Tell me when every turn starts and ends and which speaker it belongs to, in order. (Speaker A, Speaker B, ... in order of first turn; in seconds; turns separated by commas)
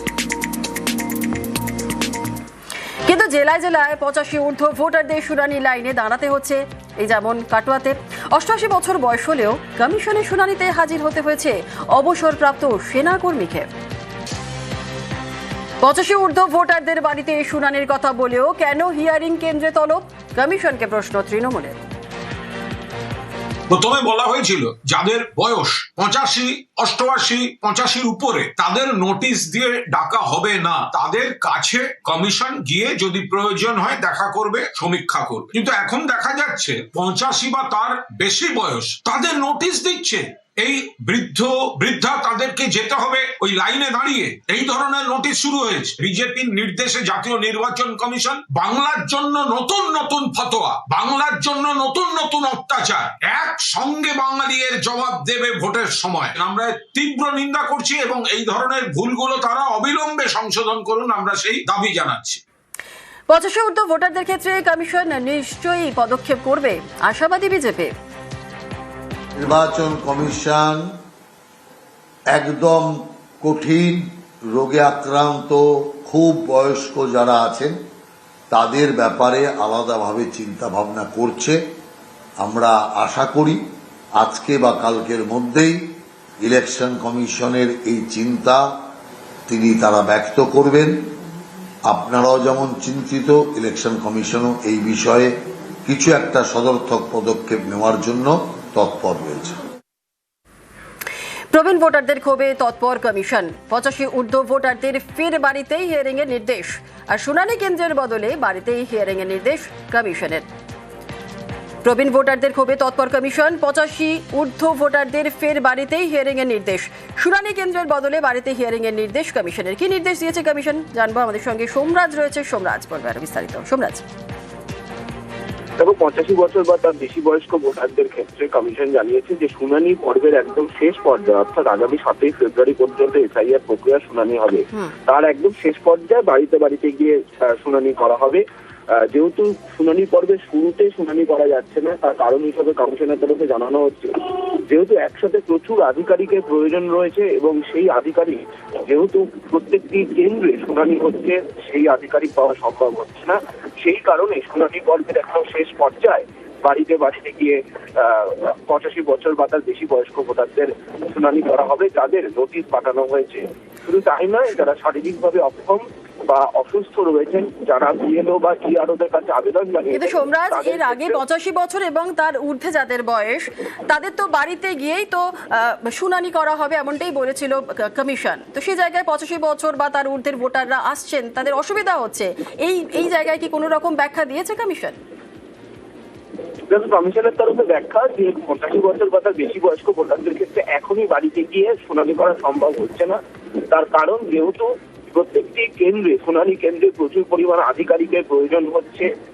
Speaker A: 3.1-13.7, Speaker A: 15.8-21.8, Speaker B: 23.7-62.4, Speaker A: 63.3-67.9, Speaker C: 69.4-70.8, Speaker C: 72.3-77.8, Speaker C: 78.5-81.6, Speaker C: 82.4-83.6, Speaker C: 84.2-85.8, Speaker C: 86.4-88.6, Speaker C: 89.5-91.0, Speaker C: 91.9-95.3, Speaker C: 95.8-99.6, Speaker A: 101.5-110.5, Speaker A: 111.8-124.0, Speaker D: 125.8-138.4, Speaker D: 139.1-144.1, Speaker D: 144.7-171.1, Speaker A: 169.9-185.0, Speaker D: 186.7-193.2, Speaker D: 193.7-199.1